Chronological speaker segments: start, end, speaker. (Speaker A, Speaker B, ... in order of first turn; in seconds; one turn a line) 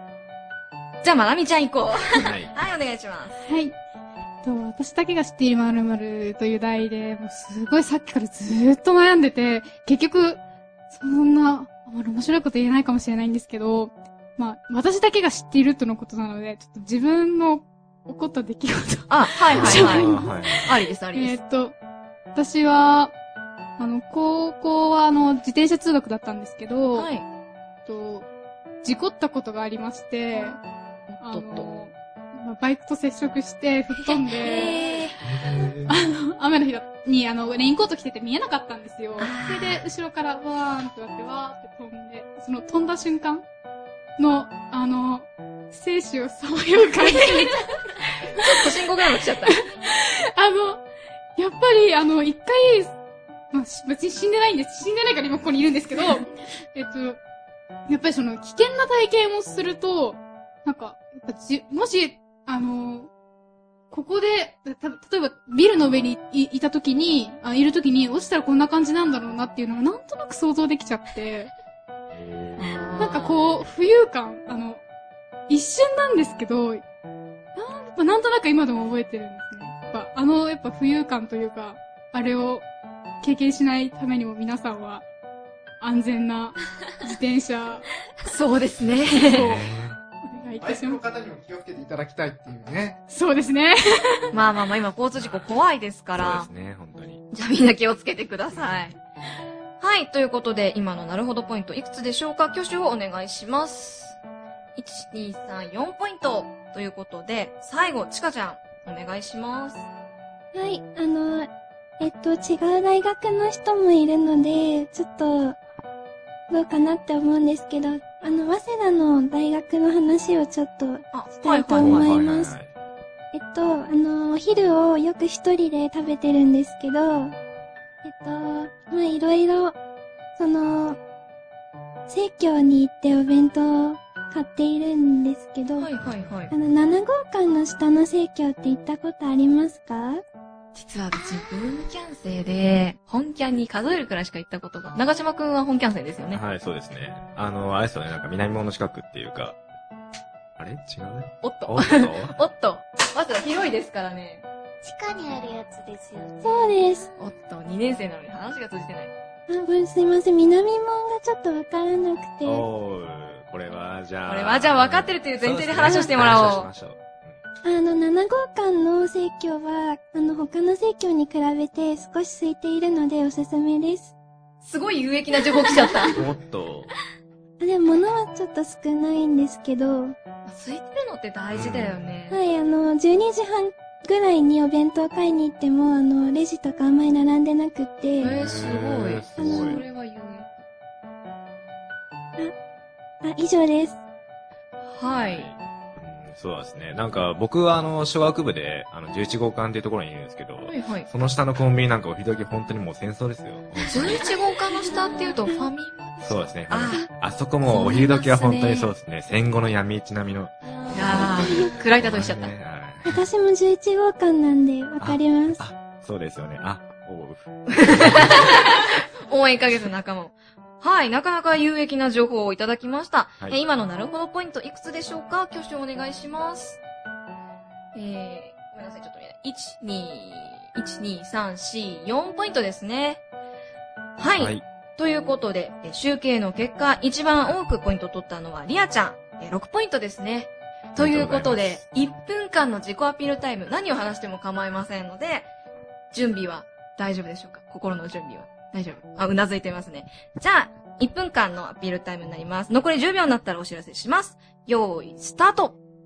Speaker A: 1.0-3.4
Speaker B: 2.2-2.5
Speaker C: 3.4-3.8
Speaker C: 4.4-10.4
Speaker C: 10.9-21.8
Speaker A: 19.1-21.4
Speaker B: 19.6-20.7
Speaker C: 22.3-23.1
Speaker C: 23.8-27.1
Speaker A: 26.9-27.2
Speaker C: 27.9-28.3
Speaker C: 28.8-30.6
Speaker A: 31.1-31.7
Speaker C: 31.2-35.1
Speaker A: 34.0-35.2
Speaker B: 35.2-36.0
Speaker C: 35.9-43.5
Speaker A: 39.2-39.9
Speaker C: 44.2-48.7
Speaker A: 47.1-47.4
Speaker A: 48.4-49.6
Speaker C: 49.4-50.8
Speaker C: 51.4-53.0
Speaker C: 53.5-57.2
Speaker C: 57.9-63.1
Speaker C: 63.9-71.5
Speaker B: 72.1-73.1
Speaker A: 72.6-73.4
Speaker C: 73.0-74.8
Speaker C: 75.5-76.8
Speaker C: 77.6-82.7
Speaker C: 83.2-85.0
Speaker C: 85.8-87.9
Speaker A: 88.3-89.7
Speaker B: 88.9-90.0
Speaker C: 90.2-91.0
Speaker D: 90.6-93.0
Speaker C: 93.1-94.3
Speaker A: 94.3-96.5
Speaker B: 95.2-95.5
Speaker B: 96.2-97.2
Speaker A: 97.3-99.0
Speaker B: 98.5-98.9
Speaker A: 99.8-104.2
Speaker A: 104.8-109.9
Speaker E: 110.5-115.6
Speaker E: 116.5-122.5
Speaker A: 121.1-122.1
Speaker B: 121.8-122.7
Speaker E: 123.3-127.4
Speaker E: 128.0-129.8
Speaker E: 130.4-131.0
Speaker E: 132.1-135.9
Speaker A: 135.8-136.5
Speaker B: 136.0-136.4
Speaker E: 136.5-140.2
Speaker A: 140.8-146.4
Speaker B: 146.3-149.6
Speaker B: 150.6-152.4
Speaker A: 151.4-154.4
Speaker F: 154.8-156.9
Speaker E: 156.4-157.1
Speaker A: 157.2-159.1
Speaker E: 159.5-162.6
Speaker B: 162.4-167.4
Speaker A: 164.3-166.7
Speaker E: 167.6-174.1
Speaker A: 174.6-176.2
Speaker B: 176.1-176.9
Speaker E: 177.6-180.2
Speaker A: 180.5-182.4
Speaker B: 181.5-182.1
Speaker E: 182.3-188.3
Speaker A: 188.2-190.5
Speaker B: 188.2-189.8
Speaker E: 189.4-189.8
Speaker E: 193.2-194.0
Speaker A: 194.9-195.5
Speaker B: 195.1-204.2
Speaker A: 200.7-201.1
Speaker A: 203.9-207.0
Speaker E: 204.9-205.5
Speaker B: 206.2-213.2
Speaker A: 207.6-208.9
Speaker A: 210.9-212.5
Speaker E: 211.1-211.7
Speaker E: 213.1-215.6
Speaker B: 215.0-218.7
Speaker A: 217.7-226.8
Speaker A: 227.9-233.2
Speaker A: 234.2-245.5
Speaker B: 234.4-234.6
Speaker B: 241.0-241.8
Speaker A: 246.1-255.8